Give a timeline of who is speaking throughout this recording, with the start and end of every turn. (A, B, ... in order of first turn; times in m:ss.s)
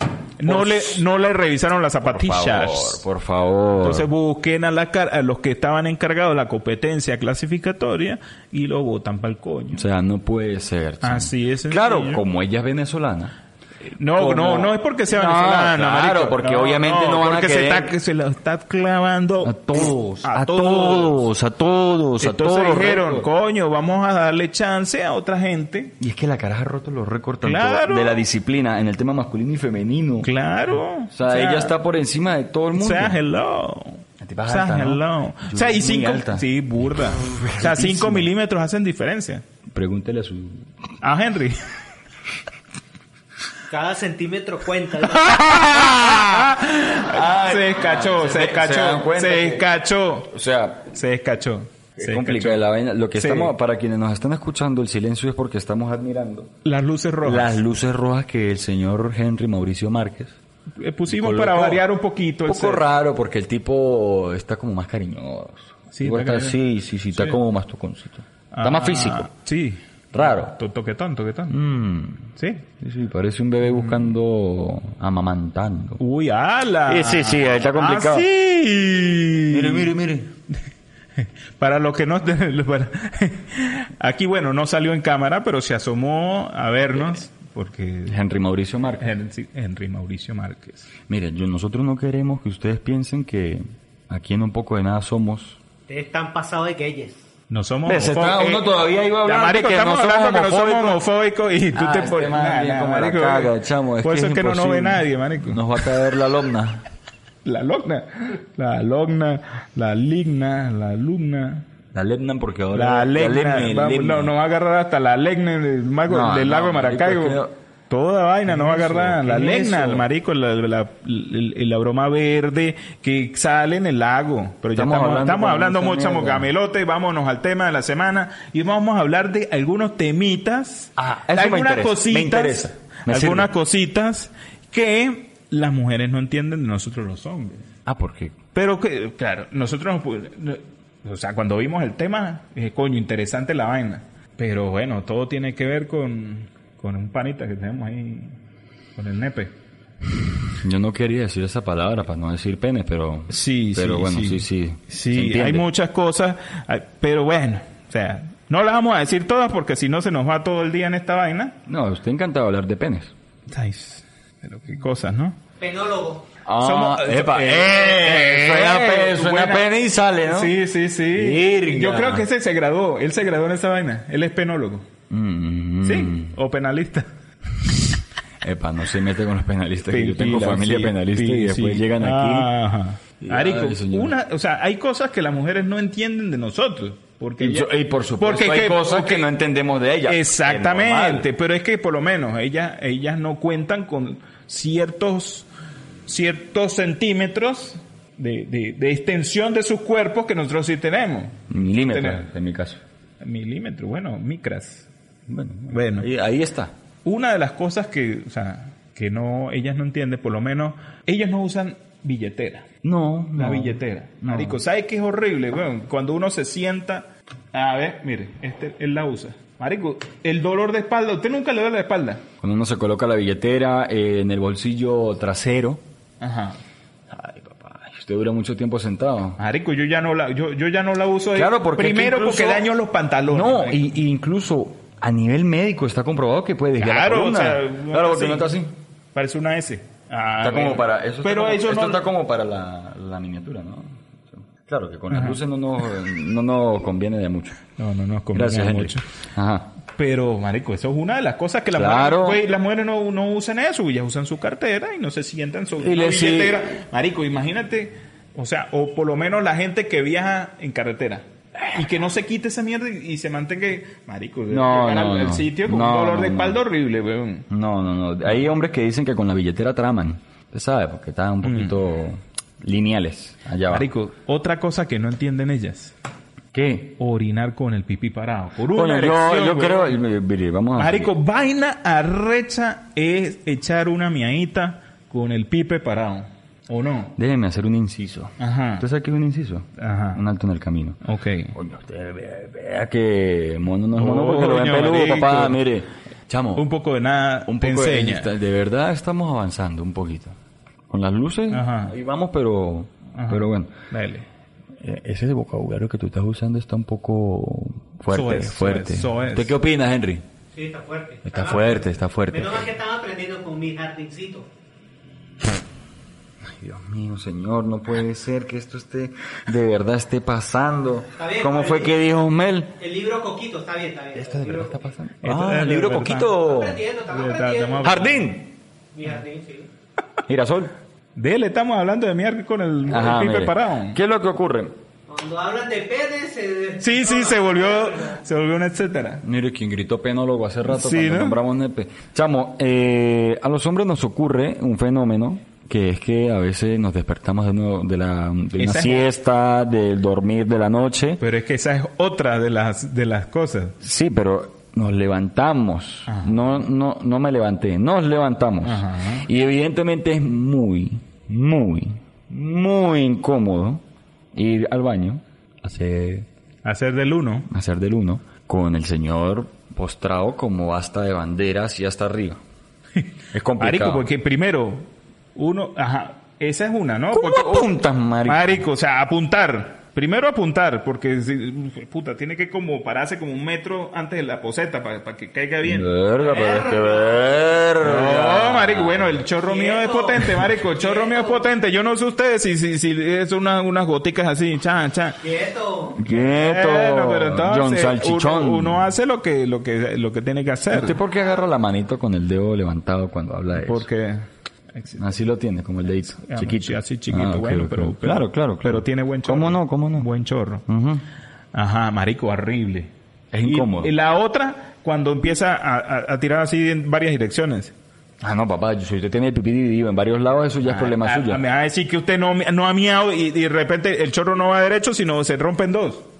0:00.4-0:03.0 A
0:00.4-0:01.0 B
0:02.0-0:04.1 B
0:03.8-0:09.8 A
0:09.7-0:13.4 B
0:11.0-0:12.2 A
0:14.0-0:21.3 A
0:14.2-0:17.9 B
0:19.4-0:23.3 B
0:22.2-0:25.9 A
0:26.0-0:30.3 B
0:27.4-0:28.2 A
0:30.2-0:31.8 A
0:31.1-0:33.2 B
0:32.8-0:39.4 A
0:34.2-0:36.4 B
0:37.1-0:38.3 B
0:39.7-0:40.6 B
0:41.0-0:41.6 A
0:43.7-0:45.4 C
0:45.2-0:50.3 A
0:45.5-0:49.7 B
0:50.3-0:50.9 B
0:50.9-0:53.5 A
0:52.0-0:56.5 B
0:56.6-0:57.6 A
0:57.2-1:00.4 B
1:00.8-1:02.8 A
1:01.1-1:01.8 B
1:02.5-1:09.3 B
1:05.9-1:06.6 A
1:08.5-1:11.6 A
1:10.1-1:10.5 B
1:11.5-1:16.0 B
1:12.4-1:12.6 A
1:13.7-1:14.0 A
1:16.0-1:19.9 A
1:16.9-1:18.3 B
1:19.5-1:20.3 B
1:21.6-1:28.2 A
1:28.1-1:29.1 B
1:29.0-1:30.9 A
1:31.1-1:35.6 B
1:35.9-1:37.2 C
1:37.5-1:46.0 A
1:37.9-1:41.0 B
1:41.7-1:46.8 B
1:47.4-1:51.7 A
1:51.9-1:54.3 B
1:52.7-2:17.6 A
1:56.1-1:57.5 B
1:58.5-2:00.1 B
2:04.8-2:06.5 B
2:11.0-2:13.5 B
2:17.9-2:18.4 B
2:18.6-2:28.3 A
2:29.0-2:29.5 A
2:30.6-2:35.7 B
2:33.3-2:41.6 A
2:41.7-2:43.1 B
2:43.5-2:45.4 A
2:45.6-2:46.2 C
2:46.5-2:50.6 B
2:46.6-2:49.7 A
2:50.2-2:54.9 A
2:51.1-2:52.3 B
2:55.1-2:56.3 B
2:55.8-2:57.1 A
2:58.4-3:02.5 B
2:59.9-3:09.3 A
3:03.2-3:04.1 B
3:07.4-3:11.3 B
3:10.1-3:15.5 A
3:16.1-3:22.3 A
3:21.5-3:22.8 B
3:23.2-3:24.9 A
3:25.3-3:26.7 B
3:25.7-3:26.1 A
3:27.0-3:32.7 A
3:32.8-3:34.6 B
3:33.4-3:42.2 A
3:42.4-3:45.8 B
3:46.2-3:46.6 A
3:47.1-3:49.4 B
3:49.4-3:53.8 A
3:51.3-3:52.7 B
3:53.3-3:58.7 B
3:56.8-3:58.6 A
3:59.2-4:02.1 A
4:00.4-4:07.6 B
4:05.1-4:05.4 A
4:07.8-4:09.0 A
4:08.3-4:09.7 B
4:10.0-4:27.5 A
4:11.7-4:12.4 B
4:15.8-4:16.7 B
4:24.5-4:26.6 B
4:27.5-4:33.9 B
4:31.4-4:31.8 A
4:33.7-4:35.9 A
4:36.5-4:37.0 B
4:37.0-4:40.0 A
4:38.7-4:41.1 B
4:40.8-4:47.1 A
4:47.2-4:51.0 B
4:48.4-4:48.9 A
4:49.8-4:50.2 A
4:51.0-4:51.5 A
4:51.5-4:56.7 B
4:54.0-4:55.6 A
4:56.6-4:58.3 A
4:57.5-5:00.4 B
5:00.9-5:03.7 B
5:01.5-5:01.9 A
5:03.2-5:04.3 A
5:04.8-5:10.2 B
5:08.1-5:09.5 A
5:10.5-5:14.5 C
5:11.2-5:12.6 B
5:16.5-5:22.7 B
5:21.2-5:22.0 C
5:22.8-5:24.8 C
5:24.2-5:26.8 B
5:25.2-5:26.4 A
5:26.4-5:28.0 C
5:27.1-5:28.3 A
5:27.8-5:28.5 B
5:28.9-5:29.7 C
5:30.3-5:30.7 B
5:31.2-5:34.0 A
5:32.9-5:34.8 B
5:35.1-5:38.2 C
5:36.8-5:39.2 A
5:39.2-5:51.2 B
5:40.7-5:41.4 A
5:48.6-5:49.1 A
5:51.2-5:53.8 A
5:53.8-6:03.8 B
5:56.1-5:56.5 A
5:58.6-5:59.3 A
6:04.3-6:06.3 B
6:06.6-6:07.5 A
6:07.5-6:12.4 B
6:13.3-6:14.0 B
6:13.6-6:17.7 A
6:17.1-6:18.6 B
6:18.2-6:25.9 A
6:25.6-6:29.2 B
6:26.2-6:27.2 C
6:27.8-6:35.2 A
6:29.4-6:31.4 C
6:35.2-6:36.0 C
6:36.0-6:38.8 B
6:36.1-6:41.0 A
6:40.7-6:43.9 B
6:43.6-6:44.2 A
6:44.8-6:45.1 A
6:45.0-6:50.1 B
6:46.1-6:50.6 A
6:50.7-6:51.0 B
6:51.5-6:52.9 A
6:53.3-6:53.9 B
6:53.4-6:57.7 A
6:58.2-7:01.4 B
7:00.6-7:06.0 A